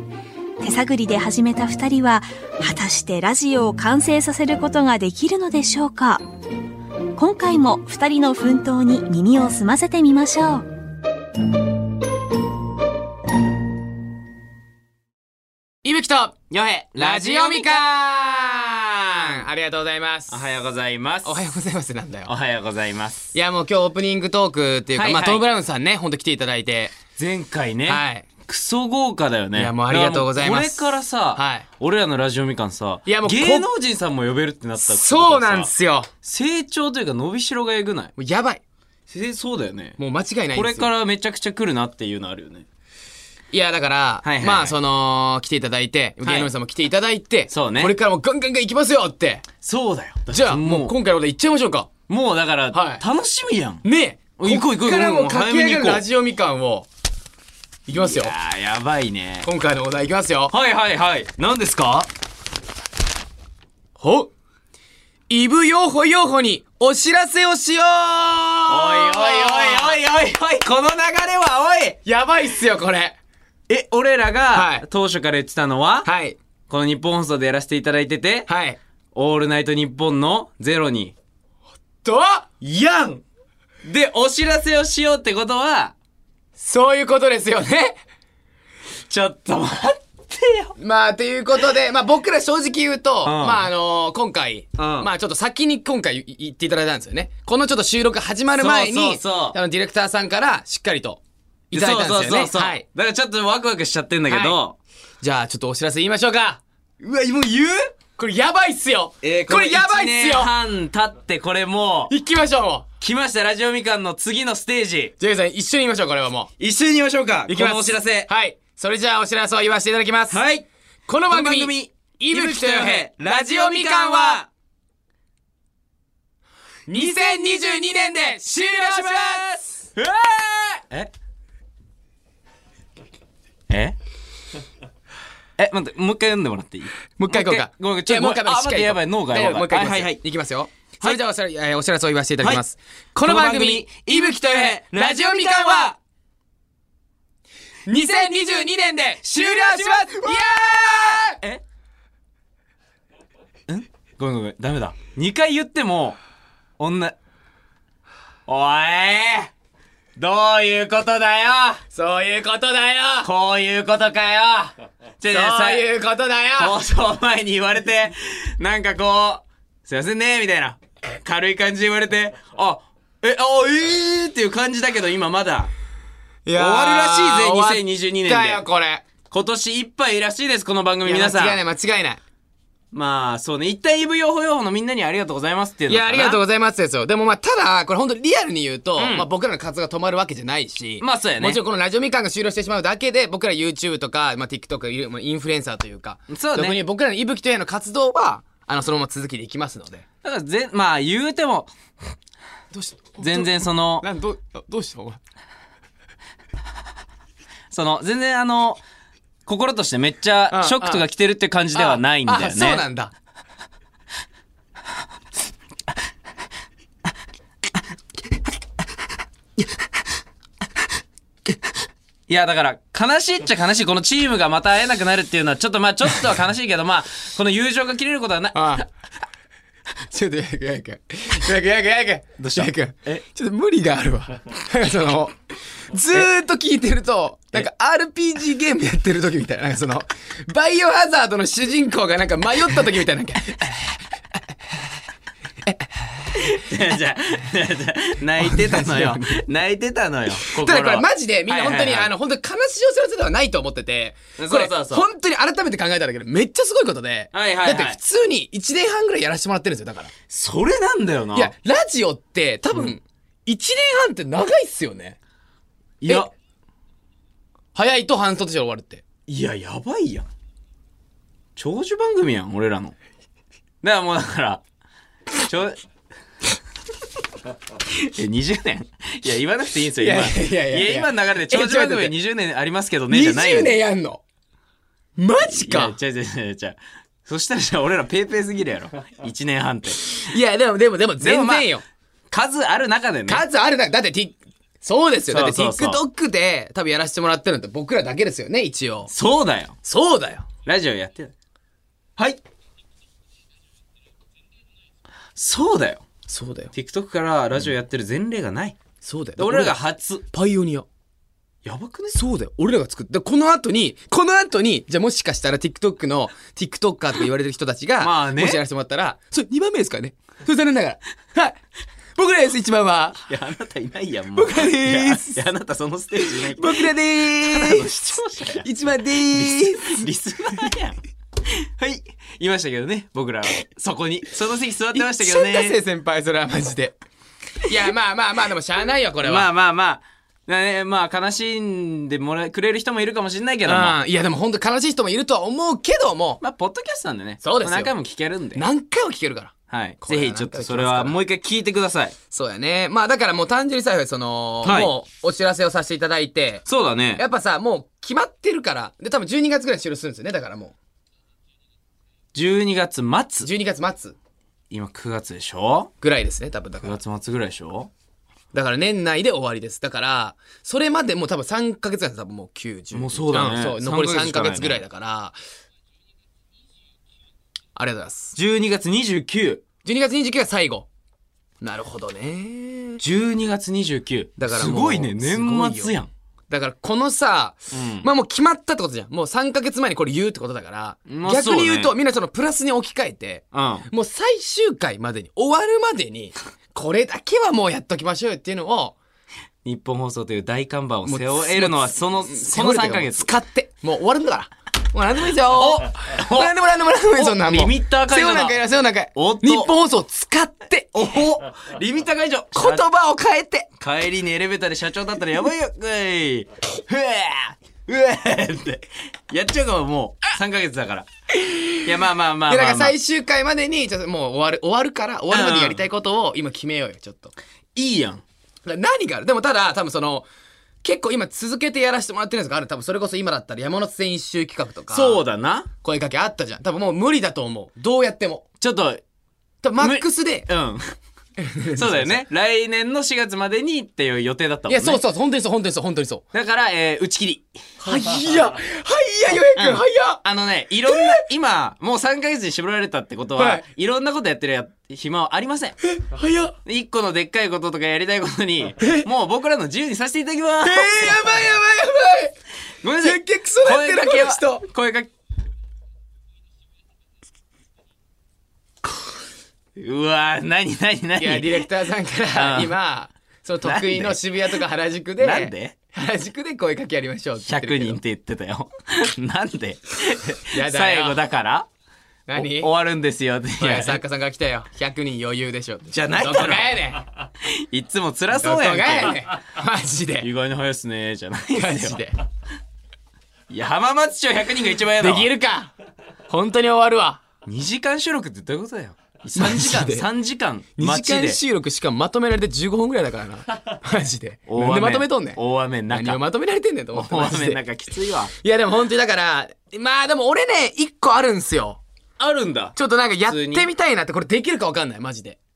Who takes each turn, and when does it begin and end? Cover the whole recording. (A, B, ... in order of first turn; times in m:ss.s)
0:00.6-0:06.2 A
0:07.2-0:10.6 A
0:15.8-0:16.4 B
0:16.5-0:17.8 C
0:17.0-0:20.4 B
0:20.3-0:21.4 C
0:21.2-0:22.3 B
0:22.3-0:23.3 C
0:23.3-0:27.0 B
0:25.0-0:25.4 C
0:27.2-0:35.7 C
0:27.9-0:28.3 B
0:29.6-0:31.7 B
0:33.0-0:33.7 B
0:34.8-0:36.1 B
0:36.2-0:38.1 C
0:38.2-0:38.6 B
0:39.1-0:40.0 C
0:40.0-0:40.9 B
0:40.5-0:42.6 C
0:43.5-0:49.4 B
0:44.2-0:44.8 C
0:46.2-0:46.5 C
0:47.5-0:47.9 C
0:49.6-0:51.0 C
0:50.3-0:51.9 B
0:52.1-0:53.8 C
0:52.7-0:53.0 B
0:53.8-0:56.9 B
0:54.4-0:56.0 C
0:57.9-0:58.3 B
0:57.9-0:59.5 C
0:59.4-1:00.5 B
1:00.5-1:02.1 C
1:04.0-1:04.3 B
1:05.3-1:10.0 B
1:08.7-1:12.0 C
1:12.0-1:13.2 B
1:13.7-1:16.1 C
1:14.5-1:14.8 B
1:16.0-1:16.4 B
1:16.7-1:18.5 C
1:18.5-1:18.8 B
1:19.1-1:21.1 C
1:22.0-1:22.5 B
1:22.6-1:23.2 C
1:23.8-1:25.9 C
1:26.6-1:28.0 B
1:29.1-1:30.7 C
1:30.8-1:42.8 B
1:33.2-1:33.7 C
1:34.8-1:35.1 C
1:38.6-1:39.6 C
1:41.7-1:44.8 C
1:44.3-1:44.6 B
1:45.2-1:46.6 B
1:47.0-1:47.9 C
1:48.2-1:50.5 B
1:49.2-1:52.1 C
1:52.1-1:52.9 B
1:53.0-1:55.1 C
1:55.2-1:56.5 B
1:56.6-1:58.3 C
1:57.5-2:00.4 B
2:00.3-2:00.7 C
2:01.1-2:04.4 B
2:01.3-2:04.5 C
2:06.9-2:09.8 B
2:06.9-2:07.9 C
2:08.5-2:11.1 C
2:13.7-2:14.0 C
2:15.6-2:20.2 C
2:17.2-2:25.9 B
2:23.2-2:26.0 C
2:27.8-2:31.4 B
2:29.2-2:31.6 C
2:33.7-2:36.2 C
2:36.8-2:37.2 C
2:38.4-2:39.5 C
2:40.2-2:41.8 C
2:41.9-2:43.3 B
2:43.2-2:45.8 C
2:45.3-2:46.8 B
2:46.6-2:55.7 C
2:56.4-2:59.0 B
2:56.5-2:58.6 C
2:59.3-3:01.6 C
3:01.0-3:02.2 B
3:02.9-3:06.4 C
3:05.9-3:20.0 B
3:09.0-3:09.2 C
3:11.0-3:11.6 C
3:16.3-3:16.8 C
3:20.2-3:21.7 C
3:22.7-3:25.2 B
3:23.2-3:24.0 C
3:27.7-3:28.8 C
3:29.4-3:32.8 C
3:30.5-3:31.0 B
3:31.7-3:33.1 B
3:42.3-3:48.9 C
3:48.5-3:48.8 B
3:50.1-3:55.4 B
3:52.4-3:53.2 C
3:55.9-4:03.8 B
4:06.3-4:12.1 C
4:08.4-4:09.4 B
4:10.5-4:20.1 B
4:14.4-4:15.0 C
4:17.3-4:18.0 C
4:20.3-4:21.5 C
4:21.3-4:25.2 B
4:26.0-4:26.3 C
4:27.8-4:29.0 B
4:29.3-4:30.3 C
4:31.6-4:33.0 C
4:33.8-4:34.6 C
4:35.4-4:35.8 C
4:37.9-4:43.8 C
4:40.0-4:42.1 B
4:43.1-4:44.2 B
4:45.2-4:46.0 B
4:45.5-4:50.2 C
4:50.1-4:51.8 B
4:51.2-4:51.7 C
4:52.3-4:53.4 C
4:53.3-4:59.1 B
4:55.3-4:56.0 C
4:59.1-4:59.8 C
4:59.8-5:00.5 B
5:00.6-5:01.3 C
5:02.2-5:02.4 C
5:05.4-5:06.1 C
5:06.3-5:06.7 B
5:06.7-5:08.8 C
5:09.0-5:10.9 B
5:09.4-5:10.2 C
5:11.6-5:12.2 C
5:12.1-5:21.6 B
5:18.0-5:18.6 C
5:22.2-5:23.2 B
5:23.3-5:35.8 C
5:24.4-5:25.4 B
5:26.2-5:30.1 B
5:34.9-5:37.0 B
5:37.6-5:39.5 B
5:39.2-5:44.0 C
5:43.6-5:46.4 B
5:46.4-5:48.6 C
5:47.4-5:47.9 B
5:48.6-5:51.2 B
5:49.7-5:52.2 C
5:52.3-5:56.6 B
5:54.6-5:54.9 C
5:56.7-5:57.2 C
5:57.2-6:00.8 B
6:02.3-6:03.5 C
6:03.4-6:04.2 B
6:04.7-6:05.9 C
6:06.0-6:07.0 B
6:06.8-6:07.9 C
6:08.5-6:15.4 B
6:12.9-6:14.8 C
6:17.8-6:18.4 B
6:18.4-6:19.6 C
6:19.8-6:20.9 B
6:21.6-6:23.0 B
6:23.0-6:26.1 C
6:24.4-6:39.0 B
6:27.7-6:28.1 C
6:31.1-6:31.9 C
6:33.5-6:33.9 C
6:39.6-6:43.3 C
6:41.0-6:51.0 B
6:45.4-6:46.5 C
6:47.2-6:48.6 C
6:49.2-6:49.8 C
6:50.9-6:52.9 C
6:52.5-6:53.7 B
6:53.8-7:01.1 C
7:01.4-7:01.8 B
7:01.8-7:03.0 C
7:02.5-7:07.3 B
7:05.3-7:05.8 C
7:07.8-7:08.2 C
7:08.7-7:10.3 B
7:10.8-7:15.2 B
7:14.9-7:15.7 C
7:15.8-7:18.4 B
7:18.6-7:19.0 C
7:19.6-7:20.5 B
7:19.8-7:21.0 C
7:21.4-7:22.2 B
7:21.7-7:25.0 C
7:24.7-7:26.2 B
7:26.3-7:28.1 C
7:27.8-7:30.2 B
7:29.6-7:35.8 C
7:30.9-7:31.2 B
7:33.4-7:33.6 B
7:35.8-7:36.6 B
7:36.6-7:41.4 C
7:38.8-7:39.1 B
7:40.6-7:42.4 B
7:42.8-7:45.1 C
7:43.0-7:44.7 B
7:49.8-7:51.7 C
7:51.2-7:58.0 B
7:52.3-7:52.7 C
7:53.6-7:54.6 C
7:55.2-7:55.8 C
7:57.5-8:01.7 C
8:00.5-8:01.2 B
8:02.3-8:02.7 B
8:02.4-8:04.0 C
8:03.6-8:07.0 B
8:05.9-8:06.8 C
8:07.4-8:09.4 C
8:08.3-8:10.3 B
8:10.2-8:12.0 C
8:11.5-8:12.2 B
8:13.5-8:15.3 C
8:15.0-8:15.7 B
8:16.3-8:17.2 B
8:17.4-8:21.4 C
8:19.4-8:20.1 B
8:20.8-8:27.6 B
8:24.5-8:26.2 C
8:26.9-8:28.3 C
8:28.3-8:31.8 B
8:32.2-8:32.8 C
8:32.8-8:35.4 B
8:33.3-8:33.7 C